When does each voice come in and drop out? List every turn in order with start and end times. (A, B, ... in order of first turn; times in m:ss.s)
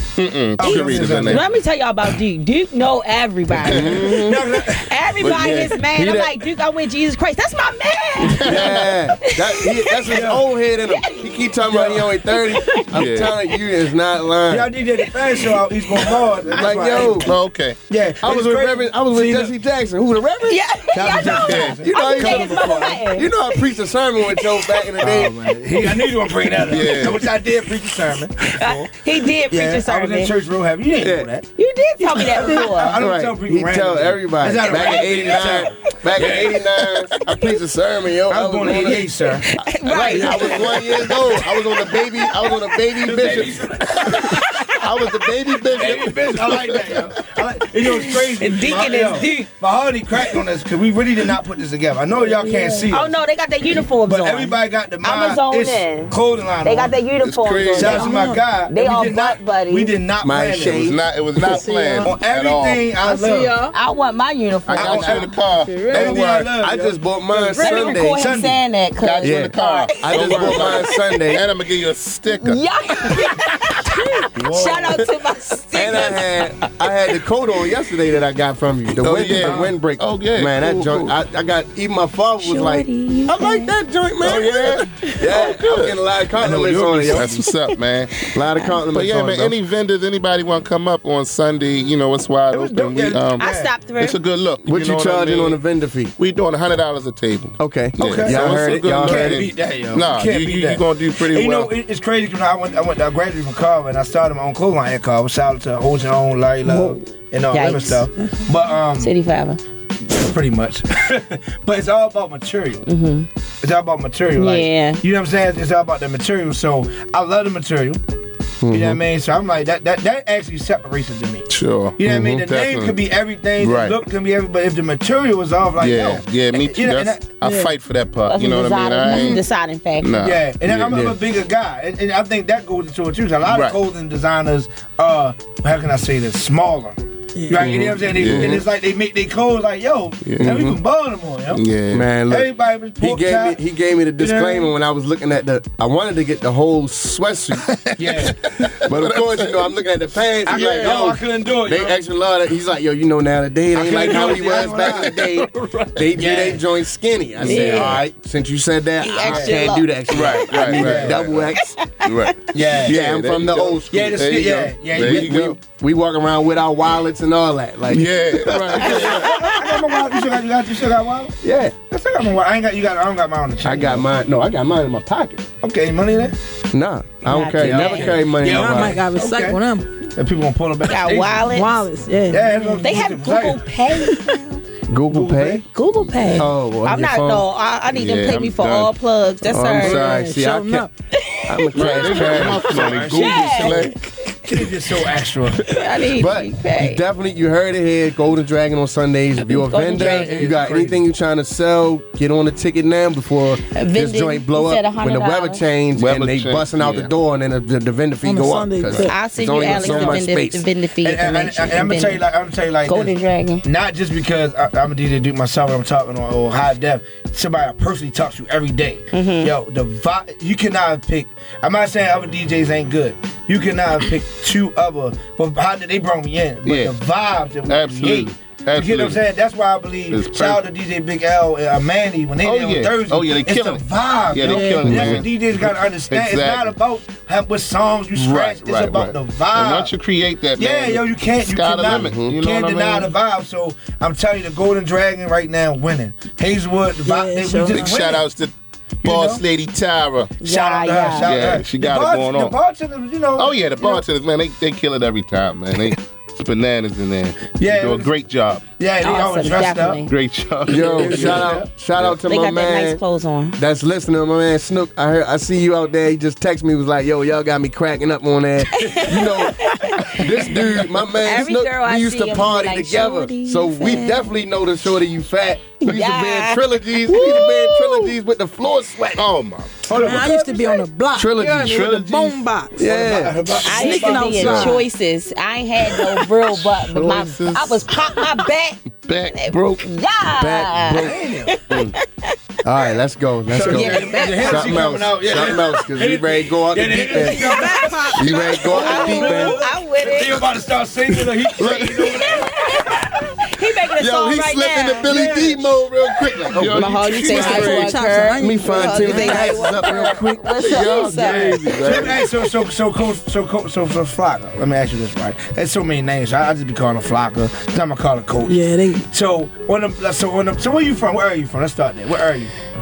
0:00.2-0:01.5 A
0:00.6-0:01.5 B
0:00.6-0:04.2 C
0:03.6-0:04.4 D
0:03.6-0:04.0 A
0:03.9-0:04.9 B
0:04.8-0:10.2 C
0:05.2-0:05.8 A
0:05.9-0:06.3 D
0:08.2-0:08.9 A
0:08.4-0:14.7 D
0:10.1-0:10.4 B
0:10.9-0:11.4 C
0:11.7-0:12.1 B
0:12.3-0:12.8 C
0:12.9-0:13.4 A
0:14.5-0:17.2 B
0:16.5-0:17.3 D
0:17.1-0:17.8 A
0:17.9-0:19.5 B
0:18.2-0:20.6 D
0:20.5-0:23.3 C
0:20.9-0:23.0 B
0:21.3-0:21.8 A
0:21.8-0:25.4 D
0:25.0-0:28.9 B
0:26.7-0:27.3 A
0:28.5-0:30.3 C
0:29.4-0:31.5 B
0:31.6-0:33.0 C
0:32.0-0:36.6 B
0:33.0-0:39.1 D
0:38.3-0:39.5 B
0:39.5-0:42.2 C
0:39.8-0:43.6 D
0:43.0-0:44.1 B
0:43.1-0:47.0 A
0:44.3-0:44.6 C
0:45.2-0:46.1 D
0:45.7-0:53.1 B
0:47.9-0:49.5 C
0:52.2-0:52.9 E
0:52.9-0:59.9 C
0:54.0-0:57.0 B
0:57.2-0:58.2 A
0:57.7-1:01.0 B
1:00.2-1:01.0 D
1:00.8-1:02.9 A
1:01.4-1:02.2 E
1:02.0-1:03.6 B
1:03.0-1:03.8 E
1:03.7-1:05.2 C
1:04.7-1:05.3 B
1:04.7-1:06.5 A
1:05.2-1:06.2 E
1:05.9-1:07.0 B
1:06.1-1:08.3 D
1:07.4-1:07.9 E
1:07.6-1:11.0 C
1:07.9-1:08.6 B
1:09.0-1:13.2 A
1:09.2-1:11.4 D
1:12.4-1:16.2 C
1:14.4-1:14.9 A
1:14.4-1:14.7 B
1:15.8-1:27.3 D
1:19.0-1:21.2 A
1:19.4-1:19.8 B
1:22.4-1:23.7 C
1:24.2-1:26.0 A
1:26.4-1:27.4 B
1:27.1-1:28.3 A
1:28.3-1:29.6 D
1:28.9-1:35.6 A
1:32.5-1:33.7 B
1:33.4-1:34.2 C
1:34.7-1:36.1 D
1:36.2-1:41.7 A
1:37.6-1:39.5 D
1:38.0-1:49.1 B
1:47.5-1:48.4 C
1:49.0-1:49.6 C
1:50.1-1:52.9 B
1:52.9-1:53.3 C
1:53.6-1:58.0 B
1:54.4-1:55.0 C
1:58.6-1:59.0 D
1:58.7-2:07.3 B
2:01.5-2:03.0 A
2:02.1-2:02.5 D
2:03.6-2:04.0 A
2:05.8-2:09.5 A
2:07.4-2:07.7 E
2:08.3-2:10.2 C
2:10.0-2:11.0 A
2:10.2-2:21.6 B
2:10.8-2:11.2 D
2:13.5-2:13.8 A
2:17.4-2:17.6 E
2:17.6-2:18.6 D
2:18.1-2:18.6 A
2:20.2-2:20.6 A
2:20.4-2:20.8 D
2:21.5-2:22.1 A
2:21.9-2:27.7 D
2:22.3-2:23.6 B
2:24.2-2:24.7 B
2:27.7-2:29.7 A
2:28.0-2:28.4 B
2:28.8-2:41.7 D
2:30.4-2:32.0 B
2:30.5-2:31.0 A
2:33.7-2:35.2 B
2:34.6-2:36.1 A
2:36.1-2:36.6 B
2:37.4-2:38.0 A
2:37.5-2:38.0 C
2:39.0-2:40.7 C
2:39.2-2:39.7 B
2:40.1-2:45.6 A
2:40.7-2:41.3 B
2:41.6-2:41.9 C
2:42.5-2:45.6 B
2:42.8-2:44.2 D
2:44.9-2:49.2 D
2:47.9-2:49.4 A
2:48.7-2:51.4 B
2:49.0-2:50.0 C
2:51.4-2:51.8 D
2:51.9-2:54.1 B
2:53.6-2:55.5 D
2:55.6-2:56.4 B
2:56.7-2:59.0 D
2:57.2-2:58.2 C
2:57.6-2:59.6 B
2:58.5-2:59.9 E
3:00.2-3:01.5 B
3:00.9-3:01.8 C
3:01.5-3:02.9 E
3:02.3-3:03.7 B
3:02.8-3:04.6 C
3:04.9-3:05.6 D
3:05.1-3:05.7 B
3:05.7-3:10.1 C
3:06.4-3:07.4 D
3:07.9-3:08.9 A
3:09.5-3:10.9 D
3:09.8-3:10.9 E
3:11.2-3:12.3 C
3:11.5-3:12.8 D
3:11.8-3:14.6 A
3:12.2-3:13.8 B
3:13.0-3:13.9 C
3:14.5-3:15.8 B
3:15.7-3:17.0 C
3:16.1-3:30.6 D
3:19.5-3:20.5 C
3:19.9-3:21.0 B
3:23.7-3:25.6 C
3:26.0-3:27.1 A
3:28.2-3:30.2 E
3:29.0-3:32.2 C
3:31.0-3:59.9 B
3:32.9-3:33.6 C
3:39.1-3:39.5 C
3:46.6-3:46.9 A
3:47.7-3:49.2 A
3:50.1-3:50.6 A
3:52.4-3:56.7 A
3:54.4-3:54.9 E
3:54.8-3:55.3 D
3:58.2-4:03.1 A
4:00.6-4:08.2 B
4:02.0-4:02.4 D
4:07.0-4:08.0 E
4:07.7-4:08.5 A
4:09.0-4:09.4 B
4:09.0-4:10.3 A
4:10.4-4:11.4 C
4:10.4-4:14.0 B
4:11.2-4:12.6 A
4:13.4-4:18.6 A
4:17.6-4:18.1 B
4:18.8-4:20.0 B
4:19.0-4:20.1 C
4:20.1-4:22.2 A
4:20.7-4:23.0 D
4:20.7-4:21.7 B
4:22.3-4:23.6 C
4:23.6-4:39.3 D
4:28.8-4:34.2 C
4:35.8-4:38.1 C
4:39.2-4:39.9 A
4:39.9-4:40.9 B
4:39.9-4:42.8 E
4:41.1-4:42.1 D
4:41.9-4:42.4 A
4:42.8-4:43.5 D
4:42.8-4:44.7 B
4:43.6-4:52.4 C
4:43.7-4:44.8 E
4:44.4-4:44.8 A
4:46.4-4:48.3 A
4:49.0-4:49.9 A
4:50.4-4:51.2 D
4:51.0-4:51.6 B
4:51.7-4:52.0 A
4:52.6-4:57.5 D
4:53.5-5:02.6 B
4:53.6-4:54.7 C
4:57.2-4:59.4 E
4:58.1-4:59.6 D
4:58.6-5:00.5 C
5:01.6-5:02.4 D
5:02.0-5:05.2 C
5:04.0-5:06.9 D
5:05.0-5:05.7 B
5:06.5-5:08.0 A
5:06.6-5:12.1 C
5:07.3-5:09.6 E
5:08.4-5:10.6 D
5:09.9-5:12.3 A
5:11.1-5:22.5 B
5:18.5-5:19.0 E